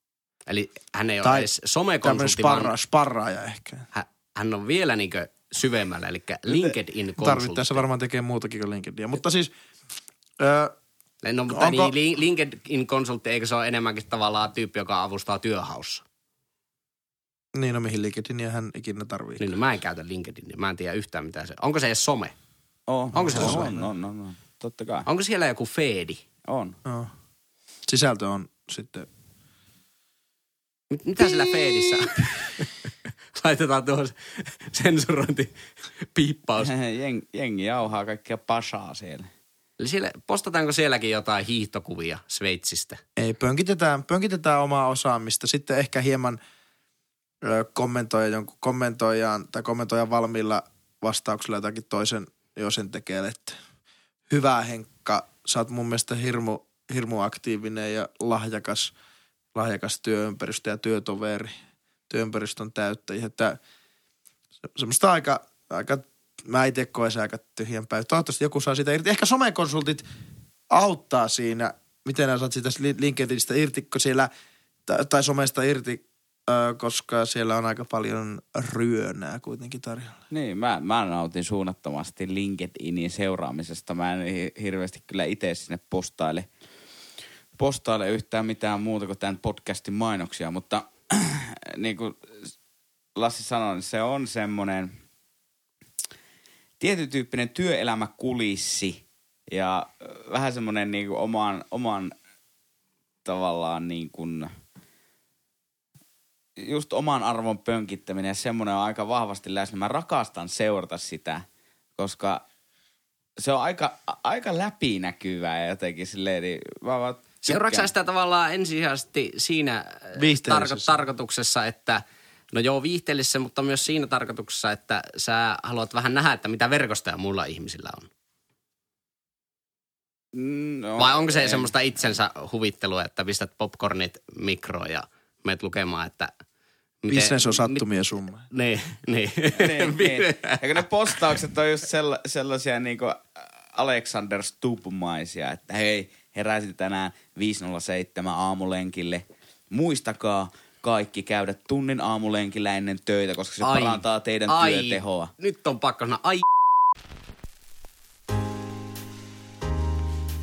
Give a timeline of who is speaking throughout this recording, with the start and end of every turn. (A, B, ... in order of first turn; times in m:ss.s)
0:00.5-0:02.7 A
0:01.2-0:01.5 B
0:02.0-0:03.9 B
0:03.9-0:07.8 A
0:07.2-0:09.5 B
0:10.4-0:10.7 B
0:11.2-0:16.0 A
0:11.5-0:11.9 B
0:17.5-0:19.5 B
0:19.4-0:22.3 A
0:22.9-0:25.1 C
0:23.1-0:23.8 A
0:23.2-0:23.9 B
0:25.1-0:26.2 A
0:26.4-0:26.8 C
0:26.8-0:27.1 B
0:27.9-0:29.1 B
0:30.9-0:32.7 A
0:33.3-0:36.7 A
0:36.6-0:39.3 C
0:39.8-0:43.0 A
0:43.2-0:46.4 B
0:47.4-0:53.6 B
0:54.3-0:58.9 B
0:59.5-1:01.5 B
1:02.1-1:03.6 B
1:04.7-1:10.0 B
1:10.7-1:14.3 B
1:14.9-1:20.2 B
1:20.3-1:26.5 C
1:27.6-1:32.5 C
1:33.2-1:35.0 C
1:36.8-1:42.1 C
1:43.2-1:44.5 C
1:46.6-1:51.4 C
1:52.0-1:52.4 C
1:53.4-1:57.9 C
1:57.4-2:08.1 A
2:00.2-2:01.0 B
2:10.3-2:11.7 C
2:11.0-2:16.3 A
2:17.0-2:17.8 A
2:17.1-2:18.4 B
2:18.5-2:20.6 A
2:19.5-2:35.3 C
2:33.6-2:36.4 A